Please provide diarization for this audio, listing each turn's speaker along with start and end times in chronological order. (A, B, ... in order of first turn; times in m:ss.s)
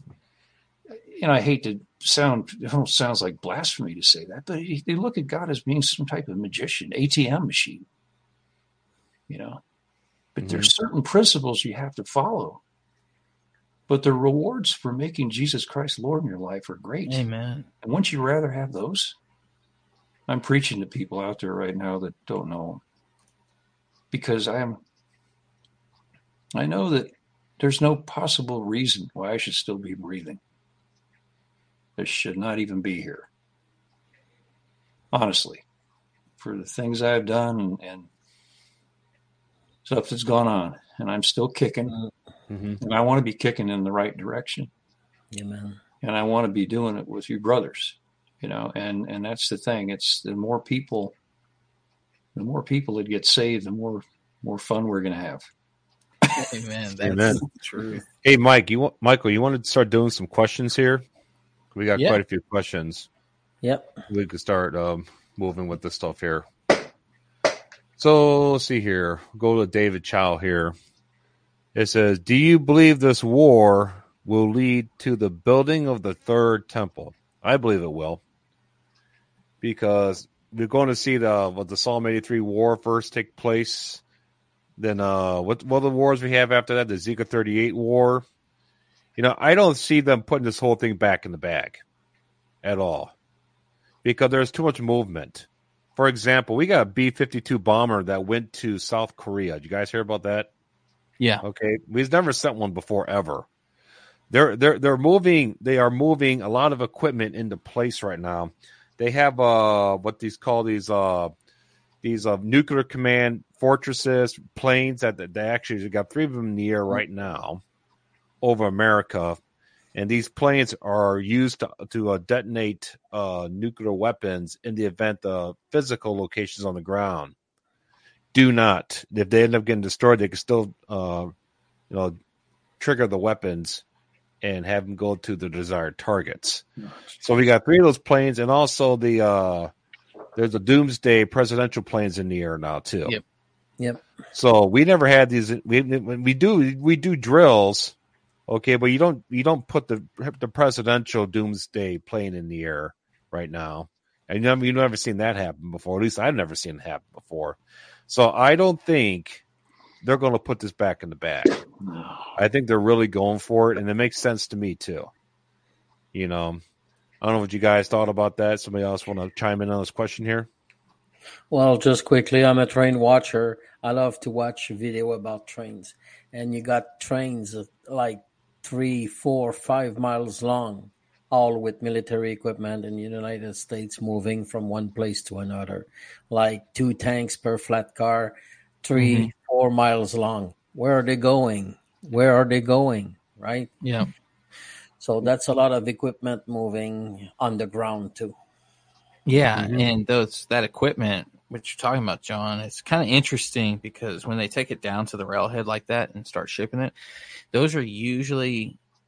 0:00.9-0:07.8 A
0:09.3-0:09.6 A
0:10.3-0:12.6 A
0:10.4-0:10.7 B
0:13.9-0:17.2 A
0:17.0-0:17.7 C
0:17.8-0:19.2 A
0:20.3-0:22.8 A
0:24.1-0:24.8 A
0:26.5-0:30.4 A
0:32.0-0:33.3 A
0:35.1-0:35.6 A
0:36.4-0:38.1 A
0:39.8-0:42.0 A
0:42.5-0:42.8 B
0:42.8-0:44.7 A
0:45.3-0:45.8 D
0:46.0-0:51.1 A
0:52.3-0:55.5 A
0:56.3-0:58.0 C
0:57.0-0:57.4 B
0:58.2-1:01.0 B
1:01.7-1:03.1 B
1:01.9-1:02.2 C
1:03.6-1:04.0 D
1:04.1-1:06.5 B
1:08.0-1:10.7 B
1:11.7-1:18.2 B
1:19.6-1:24.0 B
1:24.8-1:28.2 B
1:29.2-1:31.8 B
1:32.6-1:33.1 B
1:34.0-1:40.5 B
1:41.4-1:43.4 B
1:44.3-1:51.3 B
1:52.0-1:57.6 B
1:58.4-1:59.4 B
1:59.9-2:07.3 B
2:08.3-2:11.3 B
2:11.9-2:12.1 B
2:12.8-2:13.8 B
2:14.4-2:16.6 B
2:17.2-2:19.7 B
2:20.4-2:23.2 B
2:23.8-2:24.0 D
2:24.3-2:27.9 B
2:28.5-2:39.4 B
2:40.0-2:41.6 B
2:41.5-2:42.4 A
2:42.4-2:45.1 B
2:46.1-2:46.6 B
2:47.2-2:50.5 B
2:51.5-3:13.7 D
3:08.9-3:09.3 C
3:13.8-3:14.1 C
3:15.0-3:18.4 D
3:19.2-3:26.9 C
3:19.6-3:19.8 B
3:27.5-3:28.8 C